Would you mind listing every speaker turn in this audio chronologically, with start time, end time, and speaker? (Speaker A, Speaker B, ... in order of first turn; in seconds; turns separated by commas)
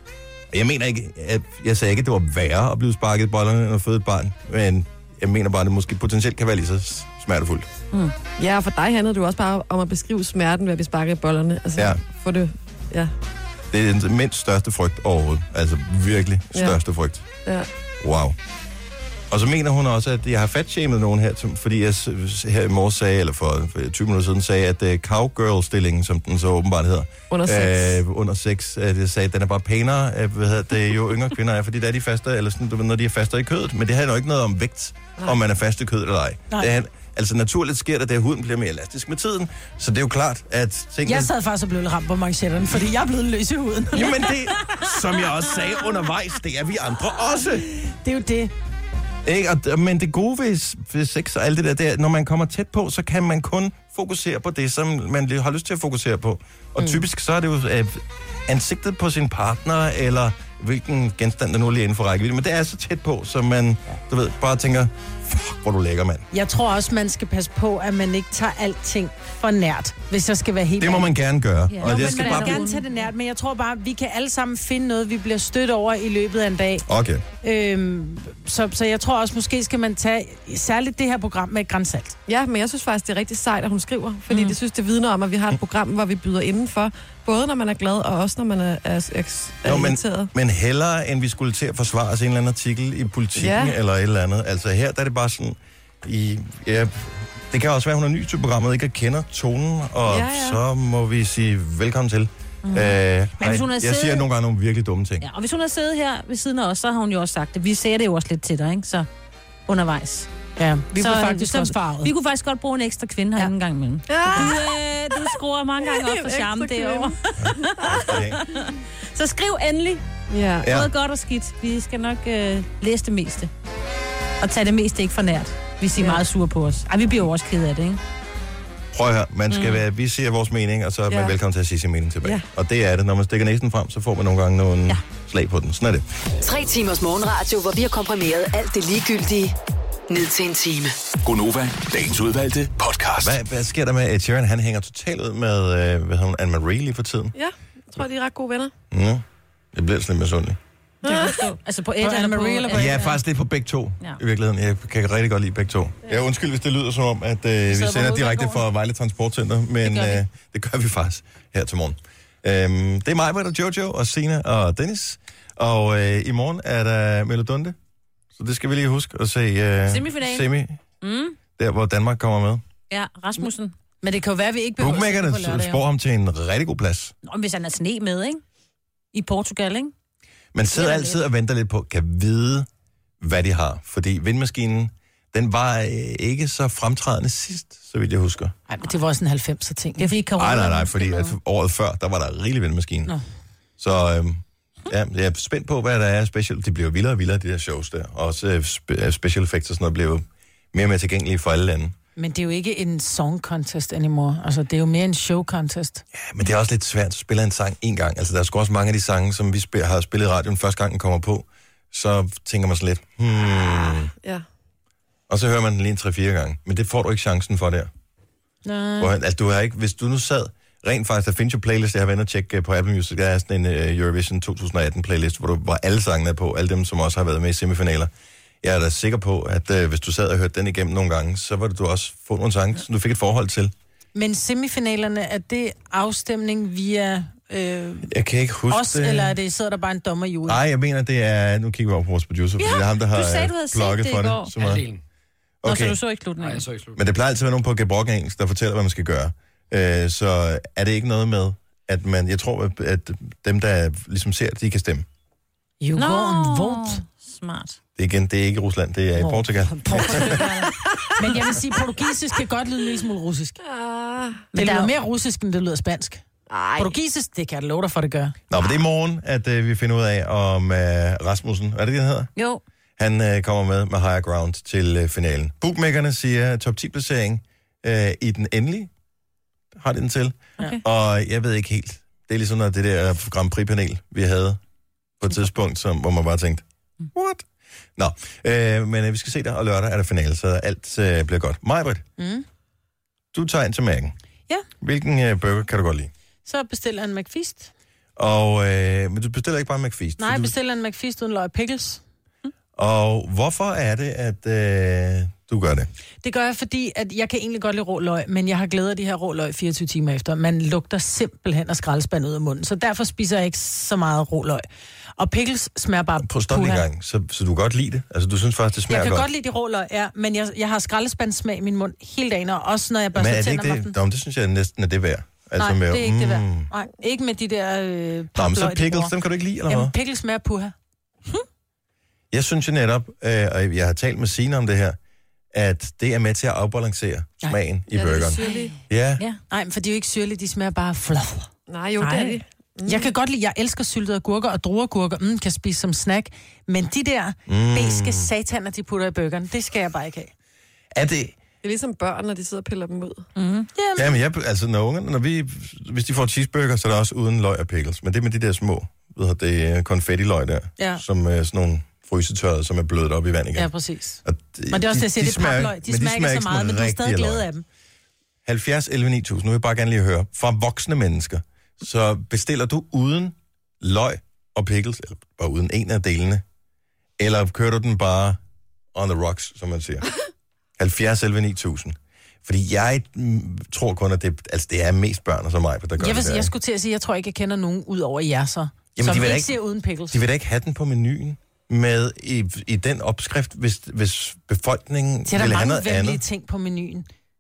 Speaker A: 0.5-7.7, Speaker B: 8.4-13.1, Speaker A: 11.8-12.0, Speaker A: 13.7-17.2, Speaker A: 18.0-18.4, Speaker A: 19.3-41.3, Speaker B: 27.3-28.0, Speaker C: 41.1-44.3, Speaker A: 43.9-47.7, Speaker C: 47.7-48.5, Speaker A: 49.2-66.3, Speaker C: 66.3-71.1, Speaker A: 70.8-72.6, Speaker D: 71.7-73.0, Speaker C: 71.8-76.9, Speaker A: 76.9-77.2, Speaker C: 77.4-82.2, Speaker B: 82.3-90.3, Speaker D: 84.3-84.6, Speaker A: 89.6-105.3, Speaker B: 93.4-93.8, Speaker B: 100.1-100.6, Speaker D: 102.7-104.3, Speaker D: 105.2-109.1, Speaker D: 109.7-110.3, Speaker C: 110.6-112.1, Speaker D: 111.0-120.0, Speaker B: 114.1-114.8, Speaker B: 115.9-117.2, Speaker A: 117.4-118.4, Speaker B: 120.3-120.7, Speaker A: 120.6-120.9, Speaker D: 120.6-123.5, Speaker D: 124.4-128.0, Speaker B: 126.0-126.2, Speaker A: 128.9-136.1, Speaker D: 129.5-129.8, Speaker B: 131.1-131.3, Speaker E: 136.4-139.6, Speaker E: 140.1-140.9, Speaker F: 141.2-143.4, Speaker A: 143.2-147.3, Speaker B: 147.3-148.7, Speaker A: 148.9-150.6, Speaker B: 151.0-151.4, Speaker D: 151.0-153.2, Speaker C: 152.0-153.1, Speaker A: 152.7-167.8, Speaker C: 157.7-158.6, Speaker C: 159.9-160.2, Speaker A: 168.3-170.8, Speaker D: 169.9-170.5, Speaker D: 171.0-171.4, Speaker A: 171.6-172.6, Speaker D: 172.9-173.7, Speaker C: 174.0-175.8, Speaker A: 174.8-177.1, Speaker D: 177.2-178.4, Speaker D: 179.1-179.9, Speaker A: 180.5-182.7, Speaker D: 180.7-181.2, Speaker A: 183.2-188.5, Speaker C: 188.7-190.3, Speaker D: 190.0-191.3, Speaker A: 190.4-193.1, Speaker A: 193.8-201.9, Speaker C: 202.2-206.0, Speaker A: 206.1-214.1, Speaker B: 213.5-214.4, Speaker A: 215.3-217.9, Speaker C: 218.7-219.1, Speaker A: 219.0-228.1, Speaker A: 228.6-233.7, Speaker C: 234.2-238.1, Speaker A: 238.1-239.4, Speaker C: 238.7-240.6, Speaker A: 240.5-244.9, Speaker D: 242.6-244.6, Speaker A: 245.6-246.0, Speaker D: 245.6-246.7, Speaker A: 246.9-255.1, Speaker C: 255.8-257.0, Speaker D: 256.0-257.8, Speaker A: 258.0-260.6, Speaker C: 259.2-260.4, Speaker D: 260.0-260.8, Speaker C: 261.2-263.6, Speaker B: 263.6-264.4, Speaker D: 264.5-264.9, Speaker C: 264.6-266.2, Speaker B: 266.5-266.9, Speaker C: 266.8-268.4, Speaker A: 268.5-272.3, Speaker A: 273.0-278.9, Speaker A: 279.8-284.6, Speaker A: 285.2-287.5, Speaker A: 288.0-292.0, Speaker C: 292.2-292.4, Speaker A: 293.3-294.1, Speaker A: 294.8-296.1, Speaker C: 296.5-297.7, Speaker A: 298.2-300.5, Speaker C: 300.2-302.0, Speaker A: 302.8-305.9, Speaker C: 306.2-314.7, Speaker C: 315.2-316.9, Speaker A: 316.2-319.3, Speaker C: 318.9-323.9, Speaker A: 323.1-326.7, Speaker C: 325.6-329.1, Speaker A: 328.4-329.9, Speaker C: 329.7-330.7, Speaker A: 332.3-335.0, Speaker A: 335.5-339.2, Speaker B: 337.9-338.7, Speaker C: 339.5-341.5, Speaker B: 341.7-343.1, Speaker C: 342.0-350.3, Speaker A: 347.5-348.3, Speaker A: 350.9-351.4, Speaker B: 351.6-353.3, Speaker D: 353.4-353.7, Speaker C: 353.7-354.2, Speaker A: 353.9-363.7, Speaker C: 360.8-361.0, Speaker C: 363.6-367.6, Speaker A: 364.2-367.5, Speaker A: 368.4-376.4, Speaker A: 377.2-378.4, Speaker A: 378.9-380.1, Speaker A: 380.8-386.5, Speaker C: 386.0-390.2, Speaker A: 389.0-396.2, Speaker C: 395.3-397.1